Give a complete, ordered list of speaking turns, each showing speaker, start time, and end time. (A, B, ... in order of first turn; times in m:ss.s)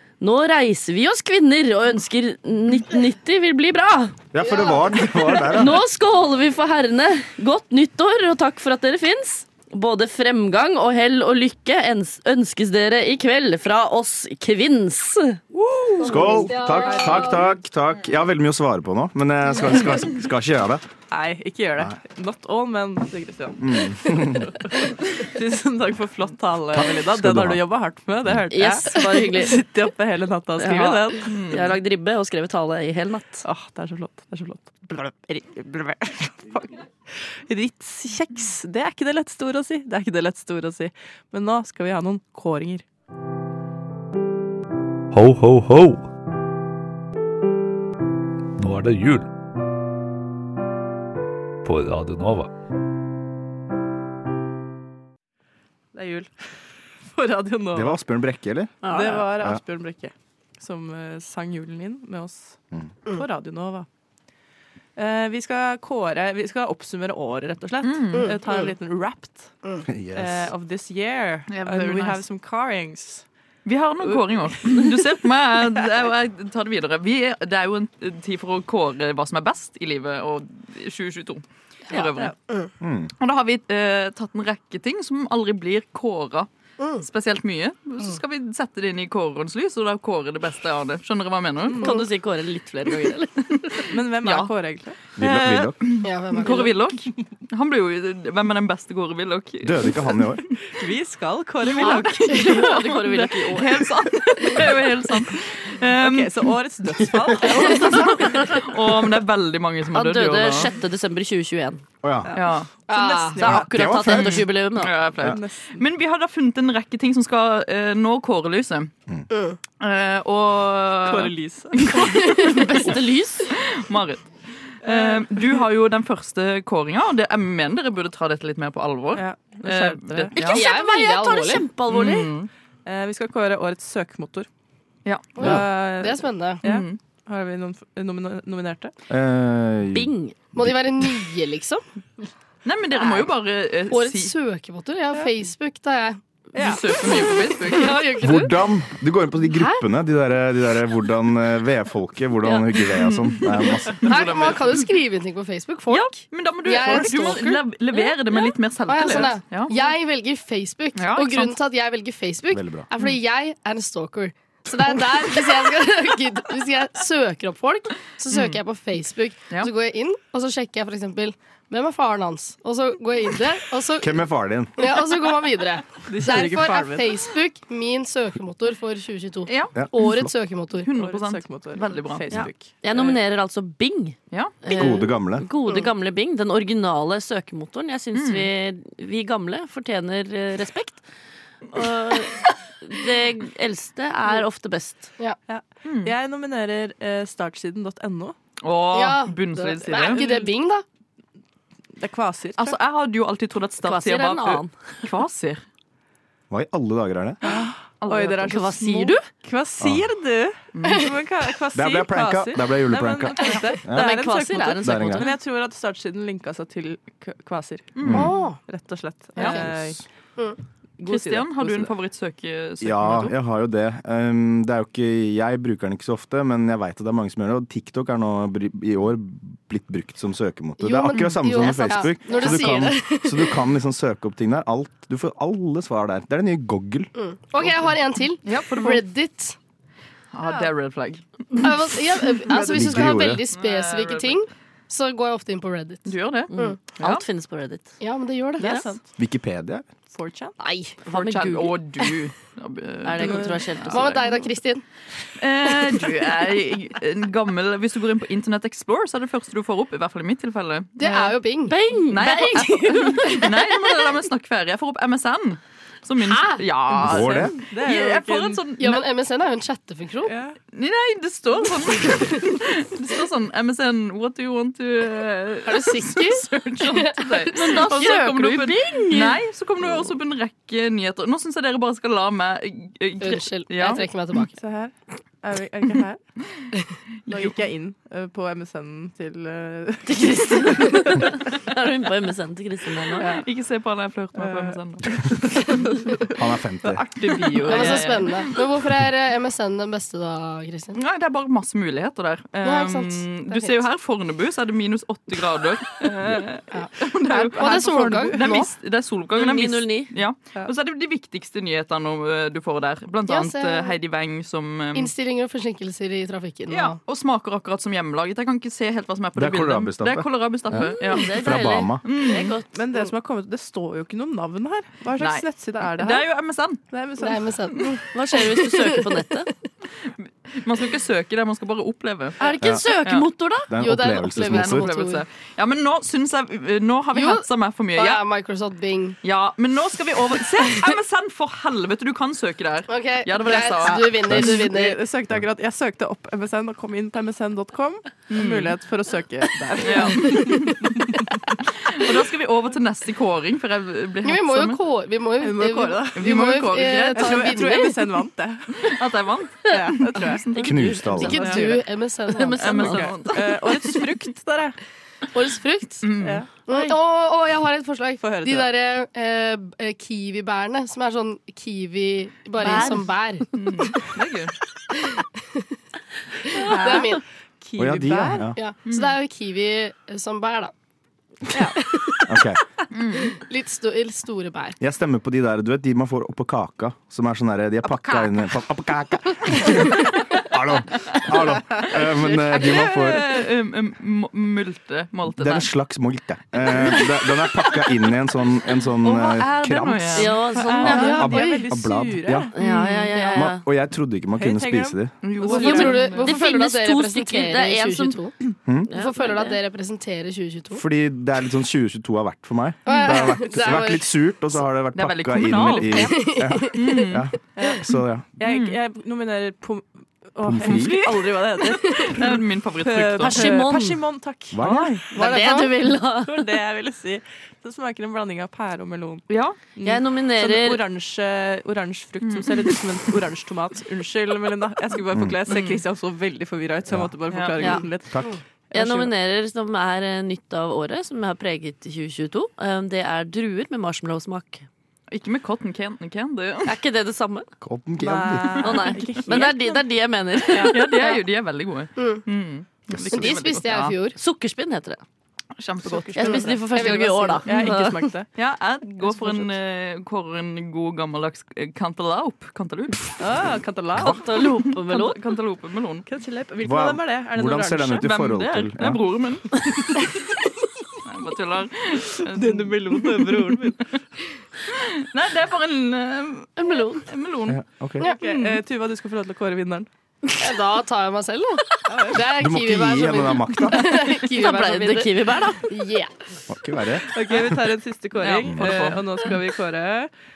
0:00.2-0:04.3 A
0:04.3-0:05.8 B
0:05.5-0:15.4 A
0:15.6-0:16.7 C
0:16.0-0:17.5 D
0:16.0-0:20.8 B
0:21.1-0:31.3 C
0:23.6-0:24.5 B
0:26.7-0:27.6 B
0:28.5-0:29.6 A
0:30.6-0:33.4 A
0:31.2-0:31.7 E
0:33.4-0:42.8 C
0:45.1-0:46.0 F
0:48.6-0:49.2 F
0:51.6-0:52.5 F
0:55.9-0:56.3 C
0:57.1-0:58.0 C
0:57.7-0:58.8 B
0:58.8-1:02.6 C
0:58.8-0:59.2 A
0:59.3-0:59.6 B
1:03.1-1:03.9 C
1:05.0-1:09.5 C
1:07.8-1:08.3 E
1:08.1-1:08.7 D
1:09.8-1:10.5 B
1:10.1-1:13.2 C
1:11.5-1:12.2 E
1:13.6-1:22.3 E
1:14.6-1:14.9 C
1:22.8-1:23.1 B
1:23.2-1:26.5 E
1:26.8-1:27.0 D
1:27.0-1:31.9 E
1:31.7-1:32.0 C
1:31.8-1:33.9 A
1:33.9-1:35.0 C
1:34.2-1:34.5 E
1:35.2-1:35.8 B
1:35.2-1:40.4 E
1:36.0-1:36.7 D
1:39.6-1:40.4 B
1:40.8-1:42.5 C
1:41.6-1:46.3 E
1:41.9-1:43.9 A
1:46.0-1:48.6 C
1:47.4-1:50.7 E
1:47.7-1:48.1 A
1:49.9-1:51.8 A
1:52.0-1:52.3 B
1:52.3-1:54.0 C
1:52.3-1:52.7 E
1:52.9-1:53.4 D
1:53.4-1:55.0 A
1:53.5-1:54.4 B
1:54.0-1:58.9 E
1:55.2-1:55.8 C
1:59.8-2:02.2 E
2:01.0-2:02.2 C
2:02.3-2:03.5 A
2:03.5-2:04.3 E
2:04.8-2:05.6 C
2:04.8-2:10.7 E
2:09.1-2:10.4 C
2:10.4-2:11.6 D
2:10.4-2:12.3 A
2:11.9-2:12.5 E
2:12.8-2:14.5 C
2:15.0-2:15.3 E
2:15.4-2:16.6 D
2:15.4-2:18.9 C
2:16.6-2:17.0 E
2:19.1-2:20.7 B
2:19.9-2:20.4 A
2:20.5-2:21.8 D
2:22.6-2:24.3 E
2:23.0-2:23.2 D
2:23.9-2:26.2 D
2:26.5-2:26.8 C
2:26.6-2:28.2 E
2:27.7-2:28.5 D
2:28.2-2:34.1 B
2:32.9-2:34.9 E
2:34.0-2:37.6 D
2:35.9-2:39.9 E
2:38.9-2:54.2 D
2:40.9-2:41.5 E
2:42.5-2:42.9 B
2:48.3-2:48.6 E
2:54.0-2:54.7 B
2:54.8-3:00.9 D
2:56.0-2:57.1 C
2:59.5-2:59.7 E
2:59.7-3:00.3 B
3:00.8-3:02.4 E
3:00.9-3:03.2 C
3:02.3-3:11.0 A
3:04.3-3:04.6 E
3:04.7-3:05.4 B
3:08.1-3:08.5 E
3:11.7-3:15.1 A
3:15.5-3:18.4 C
3:15.8-3:16.1 E
3:18.6-3:20.2 E
3:18.9-3:20.8 D
3:20.1-3:20.5 C
3:22.0-3:22.8 C
3:22.6-3:25.6 E
3:23.8-3:24.7 A
3:26.5-3:27.4 B
3:27.4-3:38.0 C
3:28.0-3:28.6 E
3:28.4-3:29.3 A
3:29.8-3:30.0 B
3:30.7-3:31.1 E
3:31.7-3:34.1 B
3:33.9-3:35.3 A
3:34.8-3:35.2 B
3:37.9-3:38.3 E
3:38.0-3:38.3 B
3:38.1-3:38.6 D
3:38.6-3:40.0 C
3:39.4-3:39.6 E
3:39.6-3:40.0 B
3:41.0-3:41.9 C
3:41.0-3:43.3 E
3:42.8-3:57.1 B
3:50.8-3:53.6 D
3:57.2-3:59.6 D
3:58.4-3:59.0 E
4:00.3-4:01.2 E
4:01.6-4:06.8 D
4:02.7-4:03.4 B
4:03.5-4:04.4 E
4:06.0-4:07.2 E
4:06.5-4:07.9 A
4:08.0-4:08.8 D
4:08.6-4:09.0 C
4:09.2-4:09.8 B
4:10.1-4:10.6 C
4:10.6-4:11.0 D
4:11.0-4:11.8 A
4:11.1-4:14.3 E
4:13.0-4:14.2 A
4:13.2-4:13.6 C
4:13.9-4:14.8 D
4:15.4-4:21.3 E
4:21.0-4:21.8 D
4:21.7-4:23.7 A
4:22.1-4:29.0 E
4:26.2-4:26.6 D
4:27.0-4:27.5 B
4:27.2-4:28.6 C
4:28.8-4:30.3 D
4:30.2-4:30.6 C
4:30.7-4:44.0 E
4:35.6-4:37.6 D
4:37.5-4:39.4 A
4:43.2-4:44.5 D
4:44.5-4:46.2 C
4:47.3-4:47.5 E
4:47.3-4:51.3 C
4:50.1-4:53.3 A
4:53.2-4:53.4 C
4:53.3-4:55.1 E
4:54.4-4:58.2 C
4:56.4-4:57.0 B
4:57.2-4:58.6 E
4:57.7-5:01.0 D
5:00.9-5:15.1 E
5:02.6-5:03.8 D
5:06.7-5:08.7 D
5:07.3-5:08.5 C
5:09.3-5:10.1 A
5:13.3-5:14.0 D
5:14.9-5:17.0 D
5:16.7-5:21.4 E
5:19.4-5:22.0 B
5:20.8-5:22.7 A
5:22.0-5:22.5 E
5:22.7-5:26.3 C
5:25.2-5:26.8 E
5:26.9-5:27.5 C
5:27.2-5:29.0 D
5:28.1-5:29.5 A
5:30.5-5:32.4 E
5:32.4-5:33.8 A
5:33.0-5:33.3 E
5:33.7-5:34.9 B
5:33.8-5:35.2 D
5:34.4-5:38.2 E
5:37.1-5:37.4 D
5:37.9-5:39.2 D
5:39.2-5:44.4 E
5:42.9-5:45.0 D
5:44.2-5:51.2 C
5:44.3-5:44.5 B
5:48.3-5:48.7 E
5:49.8-5:50.8 E
5:51.8-5:54.8 E
5:54.2-5:58.0 D
5:55.4-5:56.3 C
5:56.2-5:57.6 E
5:57.1-5:58.9 C
5:58.8-6:01.7 E
5:59.6-6:00.5 C
6:00.6-6:01.6 A
6:00.6-6:01.5 B
6:01.2-6:03.0 D
6:01.2-6:01.7 C
6:02.3-6:03.2 A
6:02.6-6:03.7 E
6:02.7-6:04.8 C
6:05.3-6:06.0 D
6:06.0-6:06.4 E
6:06.2-6:06.9 C
6:06.7-6:14.0 D
6:08.2-6:08.7 C
6:12.6-6:13.0 C
6:13.5-6:14.5 E
6:16.5-6:17.2 D
6:16.5-6:18.5 C
6:17.8-6:18.6 B
6:18.6-6:20.7 D
6:18.8-6:19.2 E
6:21.5-6:21.8 C
6:21.8-6:22.3 D
6:22.3-6:22.6 B
6:22.9-6:23.4 E
6:23.3-6:24.8 D
6:24.8-6:33.3 B
6:31.9-6:35.7 E
6:35.3-6:40.3 B
6:39.0-6:41.0 E
6:40.1-6:41.4 A
6:40.5-6:42.5 C
6:40.8-6:42.5 B
6:41.2-6:41.6 D
6:42.5-6:43.6 A
6:42.7-6:43.1 E
6:43.3-6:45.1 B
6:44.4-6:46.4 C
6:45.2-6:46.2 E
6:45.5-6:48.3 D
6:45.6-6:48.2 A
6:48.6-6:48.9 B
6:48.9-6:49.6 A
6:48.9-6:50.8 D
6:50.7-6:58.2 B
6:52.8-6:54.1 D
6:54.9-6:56.1 E
6:55.5-6:55.8 C
6:55.9-6:57.0 D
6:56.7-6:57.2 E
6:57.6-6:57.8 C
6:58.4-7:05.6 C
6:58.4-6:58.8 E
7:00.4-7:01.1 B
7:01.9-7:03.6 E
7:03.2-7:04.0 A
7:04.5-7:04.9 B
7:05.1-7:06.4 A
7:05.2-7:05.7 D
7:06.2-7:09.2 C
7:09.3-7:09.6 E
7:09.8-7:18.2 C
7:09.8-7:10.8 A
7:12.2-7:12.7 E
7:15.1-7:15.4 B
7:15.5-7:15.8 E
7:17.3-7:17.8 E
7:18.1-7:18.4 B
7:18.7-7:19.1 C
7:18.7-7:24.6 A
7:25.1-7:26.8 E
7:26.6-7:27.5 A
7:27.6-7:28.8 B
7:28.0-7:29.8 C
7:28.6-7:31.1 A
7:30.5-7:30.7 C
7:30.5-7:33.9 E
7:32.0-7:32.2 D
7:32.9-7:33.3 B
7:33.1-7:34.2 D
7:34.2-7:35.0 A
7:35.6-7:36.4 E
7:35.8-7:38.3 C
7:36.2-7:38.1 A
7:36.3-7:37.4 D
7:38.4-7:43.1 E
7:39.0-7:39.5 C
7:43.2-7:44.2 C
7:44.0-7:45.2 A
7:44.0-7:46.0 E
7:46.1-7:48.1 C
7:46.6-7:49.0 B
7:48.0-7:50.1 E
7:51.0-7:54.0 E
7:52.3-7:53.8 C
7:54.7-7:57.6 E
7:56.6-7:57.1 A
7:57.5-7:58.0 B
7:58.0-7:59.9 C
7:58.2-7:58.6 E
8:00.4-8:06.1 D
8:01.9-8:02.2 C
8:02.4-8:04.0 B
8:04.2-8:05.7 A
8:06.5-8:07.1 B
8:07.1-8:10.1 C
8:08.2-8:09.0 E